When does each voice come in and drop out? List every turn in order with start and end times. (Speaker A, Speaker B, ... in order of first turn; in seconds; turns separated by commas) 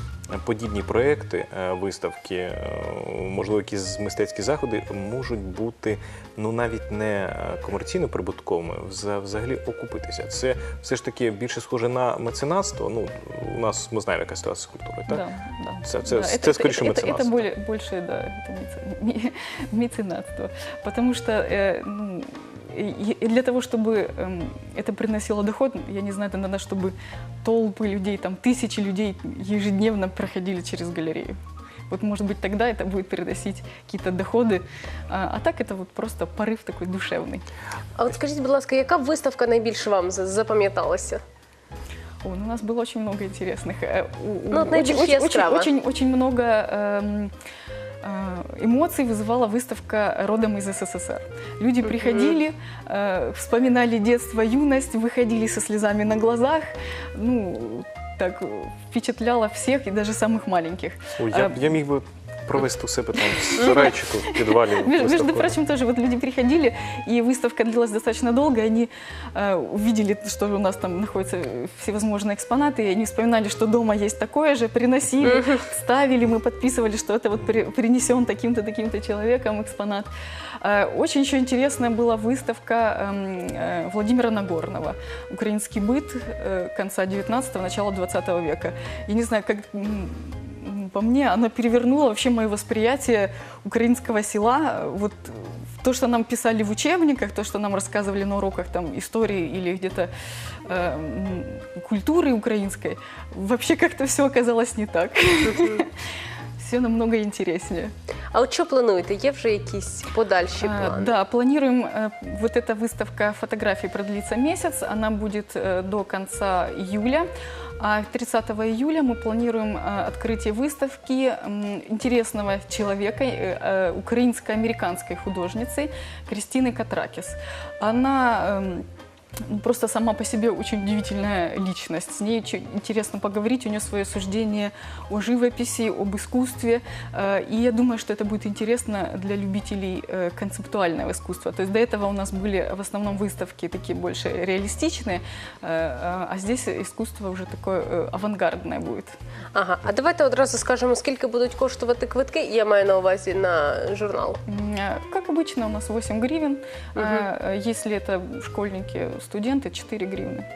Speaker A: 0.3-15.2, Speaker B: 15.1-31.3, Speaker A: 15.8-17.5, Speaker B: 31.9-37.4, Speaker C: 38.0-41.2, Speaker B: 42.2-47.3, Speaker C: 44.5-45.7, Speaker B: 48.0-61.7, Speaker C: 51.8-52.4, Speaker A: 61.2-65.6, Speaker B: 63.3-80.1, Speaker C: 75.2-75.6, Speaker B: 80.6-100.1, Speaker B: 100.7-105.9, Speaker C: 105.5-105.8, Speaker B: 106.6-107.9, Speaker C: 108.3-111.2, Speaker B: 110.6-117.3, Speaker B: 117.8-128.8, Speaker B: 129.5-149.1, Speaker C: 149.5-154.4, Speaker B: 154.4-160.5, Speaker C: 156.9-157.3